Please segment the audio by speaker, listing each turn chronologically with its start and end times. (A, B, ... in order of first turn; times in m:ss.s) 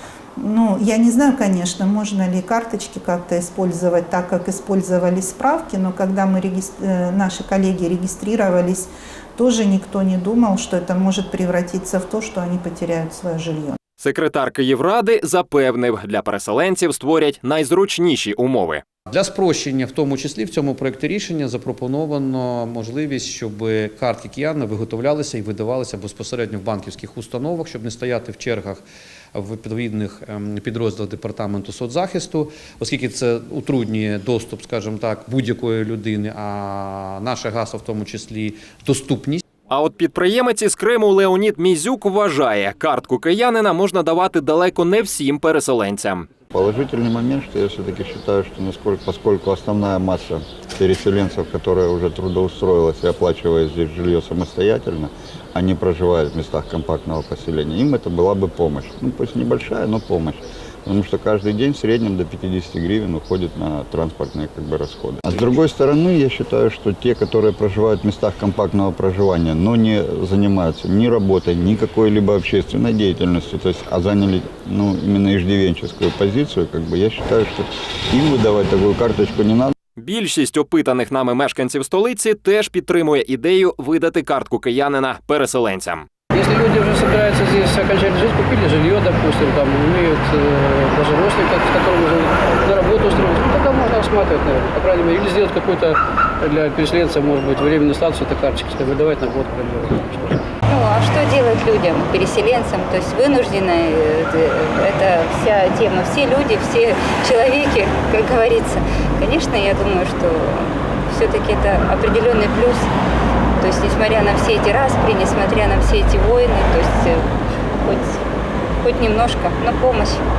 0:00.4-0:13.8 A
0:14.0-0:18.8 B
0:19.1-0:39.4 C
0:39.7-0:46.2 B
0:46.5-1:19.7 D
1:20.0-1:26.1 B
1:26.3-1:40.4 E
1:40.7-1:52.9 F
1:53.6-1:57.2 F
1:57.8-1:58.2 F
1:58.8-2:00.2 F